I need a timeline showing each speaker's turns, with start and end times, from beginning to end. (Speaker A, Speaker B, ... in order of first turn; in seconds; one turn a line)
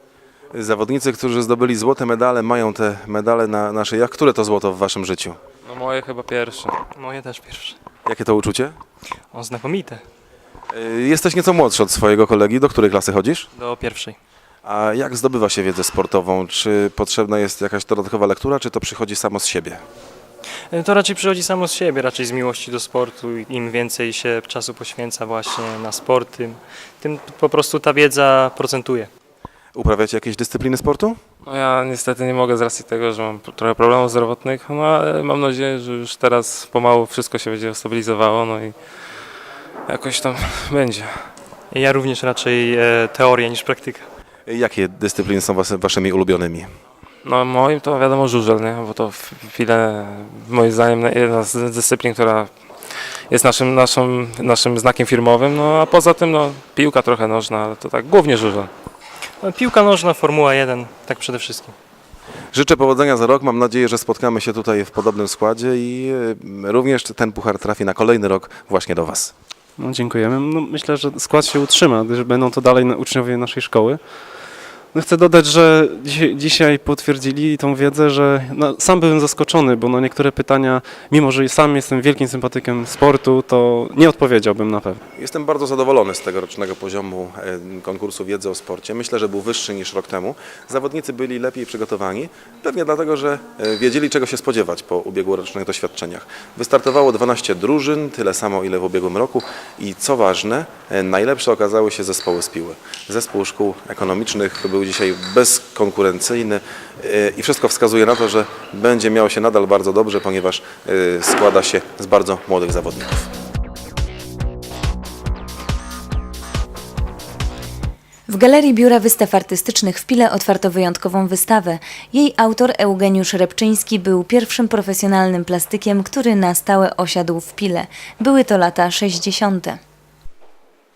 Speaker A: 0.5-5.4
Speaker B: 5.7-6.8
Speaker C: 7.0-7.8
Speaker A: 8.1-8.8
Speaker C: 9.3-10.0
Speaker A: 10.7-13.5
Speaker C: 13.6-14.2
Speaker A: 14.7-19.8
Speaker C: 20.7-29.1
Speaker A: 29.8-31.2
Speaker B: 31.4-38.8
Speaker B: 39.9-41.1
Speaker C: 41.7-44.0
Speaker A: 44.5-46.7
Speaker B: 47.2-52.5
Speaker B: 53.3-58.7
Speaker C: 59.4-61.7
Speaker A: 62.5-69.3
Speaker D: 69.8-74.0
Speaker D: 74.9-85.0
Speaker A: 85.2-113.2
Speaker E: 118.3-129.8